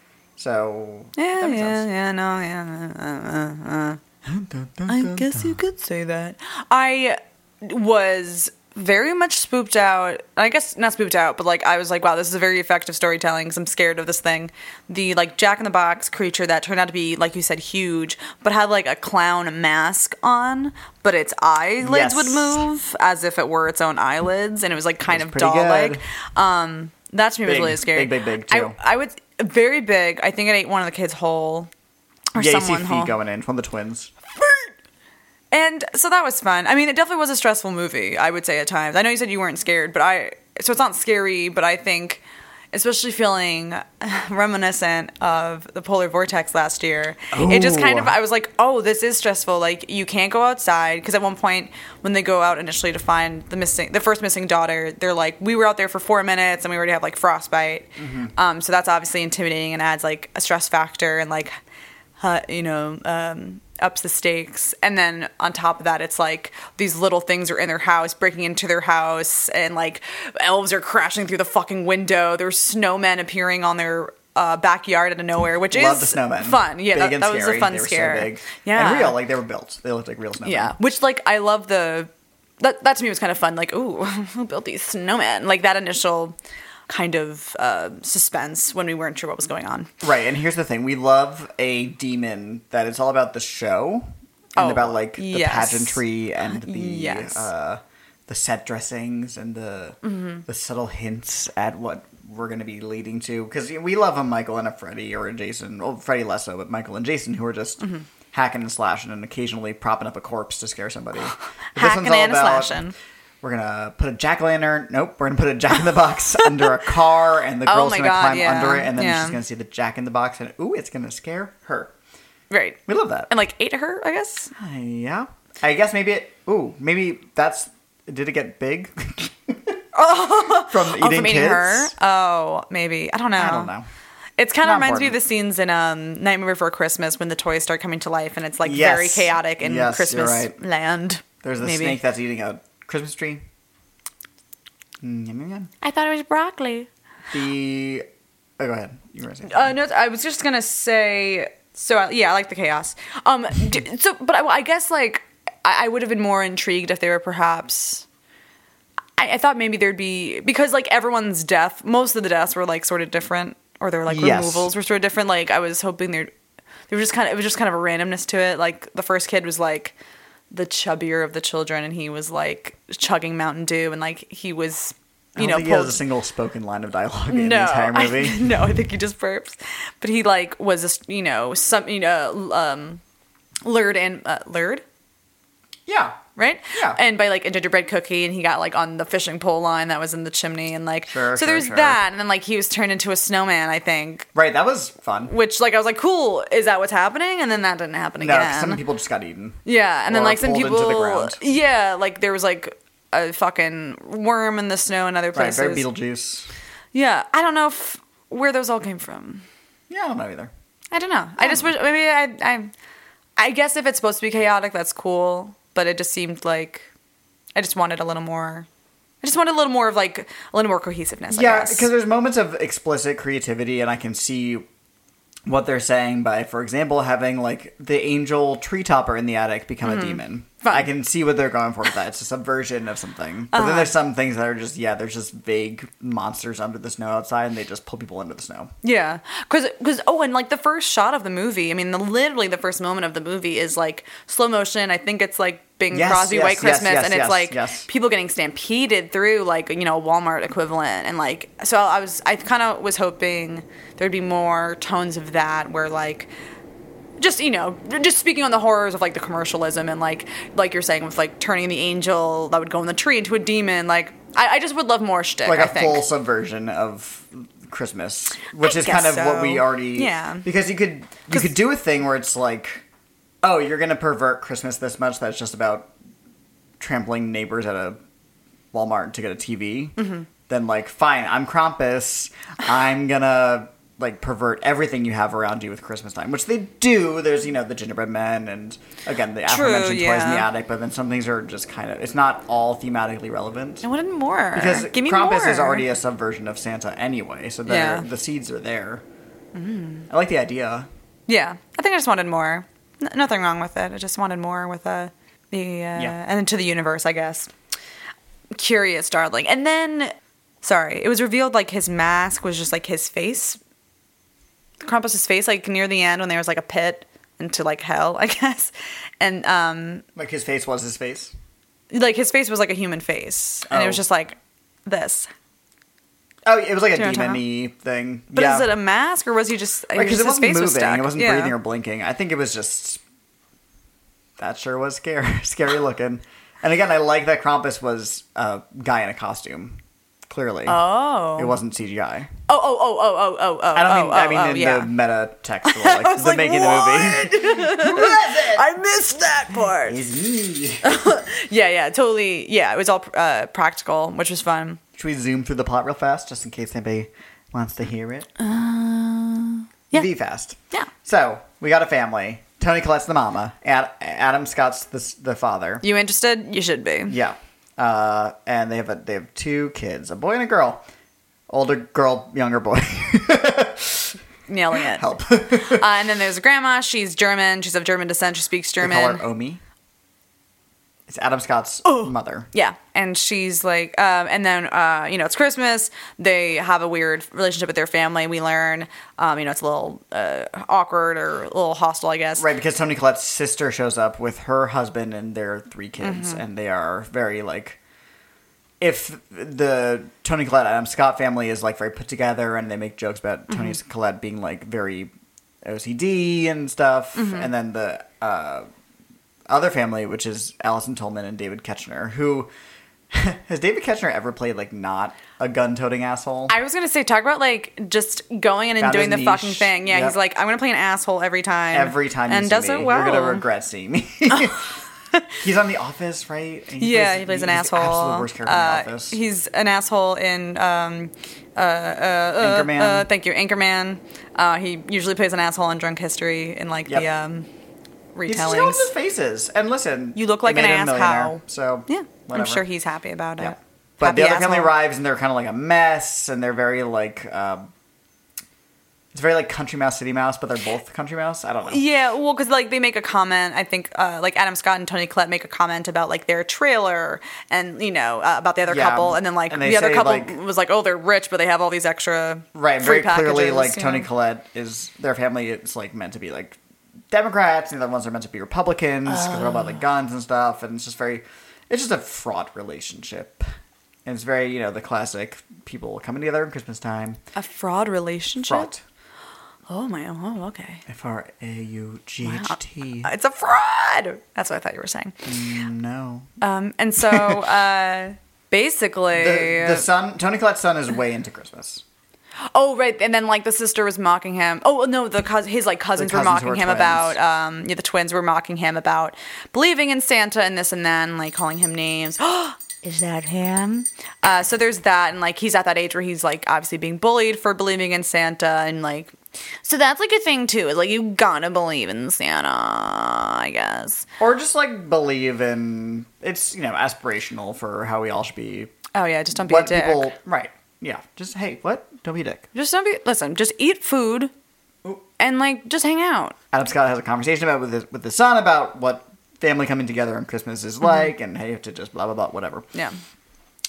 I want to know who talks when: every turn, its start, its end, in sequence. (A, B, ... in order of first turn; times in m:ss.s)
0:00.4-0:01.9 A
0:01.2-0:04.0 B
0:04.2-0:05.6 A
0:04.9-0:31.7 B
0:21.8-0:22.7 A
0:25.0-0:26.0 A
0:27.4-0:28.8 A
0:32.3-0:33.1 B
0:32.4-0:34.1 A
0:35.5-1:01.5 B
0:47.3-0:48.2 A
0:58.0-0:58.3 A
1:02.2-1:19.2 B
1:15.7-1:20.7 A
1:20.4-1:26.4 B
1:26.9-1:29.9 B
1:30.0-1:52.8 A
1:34.6-1:37.5 B
1:40.0-1:40.4 B
1:47.8-1:48.0 B
1:51.7-1:52.9 B
1:53.4-2:01.9 A
1:57.6-1:59.4 B
2:02.5-2:04.5 B
2:02.9-2:03.3 A
2:04.5-2:09.8 A
2:09.9-2:13.7 B
2:10.6-2:11.9 A
2:13.4-2:13.9 A
2:14.4-2:22.0 B
2:14.6-2:15.2 A
2:18.6-2:20.5 A
2:21.4-2:23.4 A
2:25.0-2:25.7 A
2:25.8-2:26.9 B
2:27.3-2:28.0 A
2:28.6-2:29.7 A
2:29.5-2:38.0 B
2:39.2-2:46.3 B
2:44.1-2:44.7 A
2:46.9-2:49.9 B
2:50.5-2:56.0 B
2:55.4-2:58.6 A
2:57.3-3:03.0 B
3:03.6-3:04.8 B
3:05.9-3:06.2 A
3:06.4-3:14.3 B
3:06.7-3:07.0 A
3:11.1-3:12.0 A
3:14.3-3:15.3 A
3:15.3-3:18.8 B
3:18.2-3:21.4 A
3:19.6-3:25.8 B
3:25.3-3:26.5 A
3:26.9-3:29.4 B
3:29.9-3:30.5 A
3:30.9-3:32.7 B
3:31.4-3:31.7 A
3:33.4-3:36.9 B
3:37.5-3:38.7 B
3:39.2-3:41.9 B
3:41.3-3:44.6 A
3:45.5-3:58.7 A
3:49.8-3:50.9 B
3:53.5-3:53.9 B
3:58.8-4:16.3 B
4:05.9-4:07.9 A
4:17.2-4:26.0 B
4:25.4-4:32.8 A
4:28.6-4:30.4 B
4:33.4-4:35.9 A
4:36.8-4:38.0 A
4:38.7-4:53.8 A
4:40.0-4:40.2 B
4:49.5-4:50.4 B
4:53.8-4:55.9 B
4:54.5-4:59.0 A
4:57.7-4:58.0 B
4:59.5-5:00.1 B
5:00.1-5:00.9 A
5:01.3-5:07.5 B
5:08.5-5:13.6 B
5:14.8-5:20.0 B
5:20.2-5:21.3 A
5:21.9-5:25.3 B
5:23.7-5:24.0 A
5:26.4-5:28.7 A
5:26.9-5:27.4 B
5:28.3-5:31.5 B
5:29.9-5:33.0 A
5:34.4-5:40.8 A
5:40.6-5:41.6 B
5:41.4-5:42.3 A
5:42.5-5:44.9 B
5:43.7-5:48.6 A
5:45.6-5:50.0 B
5:49.8-5:51.0 A
5:50.8-5:54.8 B
5:55.0-5:58.3 A
5:58.4-6:00.0 B
5:59.9-6:05.8 A
6:05.8-6:07.2 B
6:07.1-6:10.8 A
6:11.5-6:14.2 A
6:14.5-6:19.2 B
6:14.8-6:15.9 A
6:18.8-6:19.6 A
6:21.1-6:22.5 A
6:21.8-6:32.5 B
6:32.4-6:37.8 A
6:36.0-6:36.4 B
6:38.8-6:45.1 A
6:45.6-6:48.6 A
6:47.2-6:47.5 B
6:49.5-6:52.5 A
6:53.1-6:56.5 A
6:56.5-7:03.4 B
6:58.8-7:00.2 A
7:01.7-7:04.8 A
7:05.4-7:09.2 A
7:06.8-7:17.5 B
7:12.4-7:13.1 A
7:18.1-7:18.9 B
7:18.3-7:22.6 A
7:20.1-7:24.8 B
7:23.4-7:27.7 A
7:29.1-7:31.8 A
7:31.7-7:44.1 B
7:38.7-7:40.4 A
7:42.5-7:46.6 A
7:47.1-7:53.4 A
7:54.0-7:57.2 A
7:57.3-7:58.7 B
7:58.4-7:58.8 A
7:59.7-8:00.8 B
8:00.9-8:03.1 A
8:02.2-8:05.2 B
8:05.2-8:06.4 A
8:06.4-8:09.8 B
8:07.0-8:07.4 A
8:09.1-8:11.8 A
8:12.5-8:34.1 B
8:16.0-8:17.2 A
8:34.2-8:38.7 A
8:38.9-8:40.1 B
8:39.3-8:42.5 A
8:42.5-8:44.3 B
8:45.2-8:46.4 B
8:46.5-8:52.7 A